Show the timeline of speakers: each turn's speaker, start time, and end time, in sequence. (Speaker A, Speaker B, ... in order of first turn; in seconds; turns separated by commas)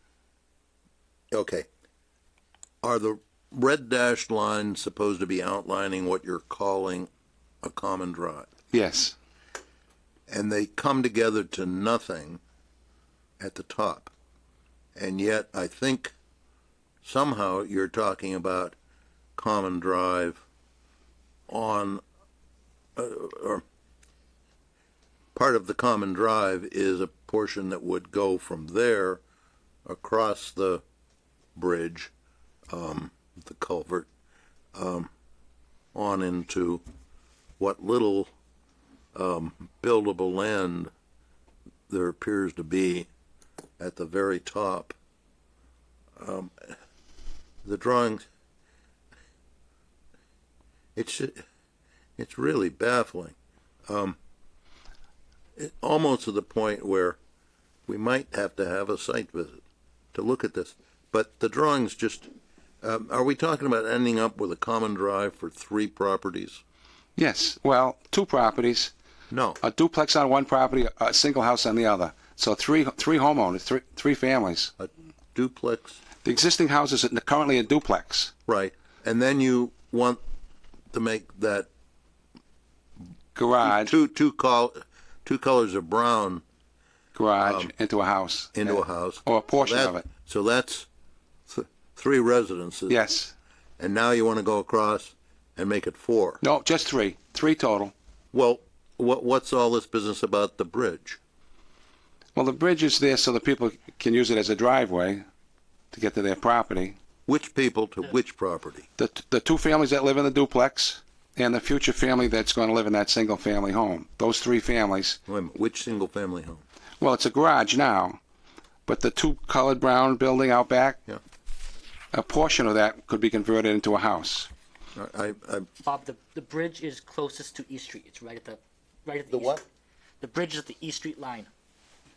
Speaker A: 1.3-1.7, Speaker A: 2.8-7.1, Speaker A: 7.6-8.5, Speaker B: 8.7-9.2, Speaker A: 10.3-12.4, Speaker A: 13.4-14.1, Speaker A: 14.9-16.1, Speaker A: 17.0-18.8, Speaker A: 19.4-20.4, Speaker A: 21.5-22.0, Speaker A: 22.9-23.6, Speaker A: 25.3-29.2, Speaker A: 29.9-30.8, Speaker A: 31.6-32.1, Speaker A: 32.7-34.1, Speaker A: 34.7-35.1, Speaker A: 35.9-36.8, Speaker A: 37.6-38.3, Speaker A: 39.1-40.9, Speaker A: 41.9-43.1, Speaker A: 43.8-44.9, Speaker A: 46.2-46.8, Speaker A: 47.6-48.2, Speaker A: 51.0-51.4, Speaker A: 52.2-53.4, Speaker A: 53.9-54.2, Speaker A: 55.6-57.2, Speaker A: 57.9-59.6, Speaker A: 60.1-62.3, Speaker A: 62.8-66.6, Speaker B: 67.2-68.9, Speaker A: 69.3-69.6, Speaker B: 69.6-74.7, Speaker A: 74.8-76.0, Speaker B: 76.2-78.3, Speaker A: 78.5-80.2, Speaker A: 80.9-81.7, Speaker B: 83.3-83.9, Speaker A: 83.6-86.4, Speaker B: 87.1-90.1, Speaker A: 87.4-87.7, Speaker A: 88.5-90.9, Speaker A: 91.5-93.0, Speaker B: 92.9-93.3, Speaker A: 93.8-96.4, Speaker B: 96.4-97.9, Speaker A: 98.3-101.2, Speaker B: 102.3-105.2, Speaker B: 105.9-107.0, Speaker A: 107.3-108.9, Speaker B: 109.0-115.2, Speaker A: 115.3-116.6, Speaker B: 117.0-118.2, Speaker B: 118.8-121.0, Speaker B: 122.1-124.5, Speaker A: 124.9-125.7, Speaker C: 125.8-129.6, Speaker A: 129.3-129.6, Speaker C: 130.2-131.5